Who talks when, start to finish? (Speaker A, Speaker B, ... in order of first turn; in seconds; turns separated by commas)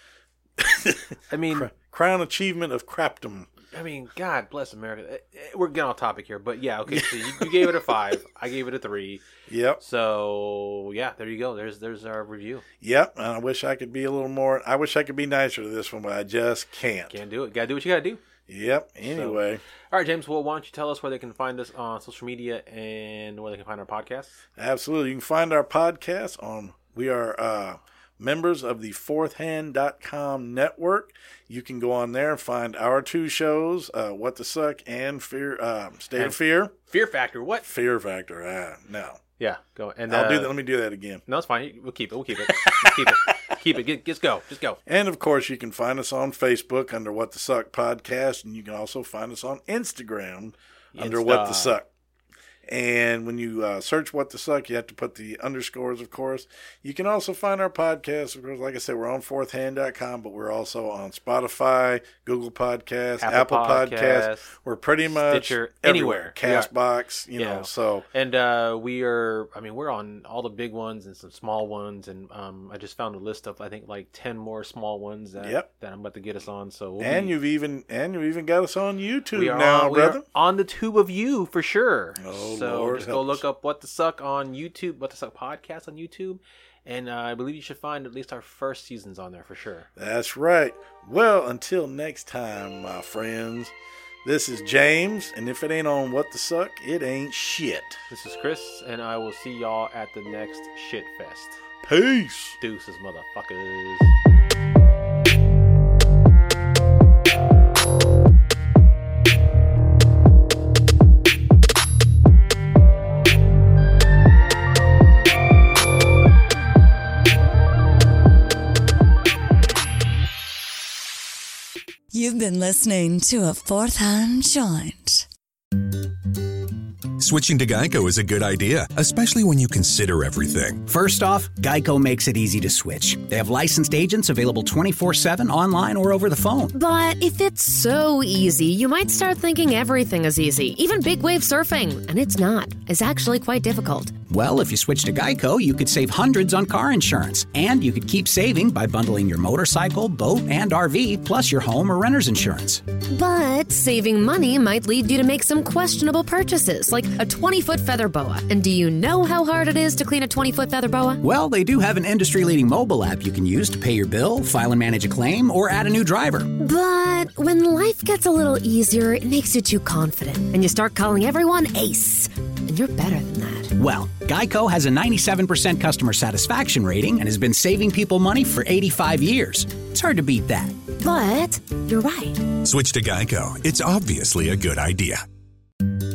Speaker A: 0.6-3.5, Speaker B: 1.3-1.7, Speaker B: 3.7-9.2, Speaker A: 6.9-7.8, Speaker A: 9.5-9.8, Speaker B: 9.8-12.6, Speaker A: 12.8-17.2, Speaker B: 17.1-18.2, Speaker A: 18.5-19.6, Speaker B: 19.0-24.4, Speaker A: 24.6-36.7, Speaker B: 36.2-37.7, Speaker A: 37.6-39.2, Speaker B: 39.4-40.5, Speaker A: 40.1-41.2, Speaker B: 41.3-44.8, Speaker A: 42.5-43.3, Speaker A: 44.9-51.9, Speaker B: 50.9-51.8, Speaker A: 52.7-68.0, Speaker B: 63.2-64.5, Speaker B: 65.1-66.7, Speaker B: 67.4-77.4, Speaker A: 75.4-75.7, Speaker A: 77.0-80.2, Speaker B: 79.3-89.9, Speaker A: 82.2-83.4, Speaker A: 90.0-93.7, Speaker A: 94.2-98.0, Speaker B: 98.1-101.6, Speaker A: 101.8-102.6, Speaker B: 102.6-104.1, Speaker C: 122.1-125.2, Speaker D: 127.2-130.8, Speaker E: 130.9-136.7, Speaker F: 136.7-144.1, Speaker E: 144.3-152.8, Speaker F: 153.1-161.2, Speaker E: 161.2-166.5, Speaker F: 166.6-173.7, Speaker E: 173.8-180.8, Speaker F: 181.0-182.4, Speaker D: 182.6-185.2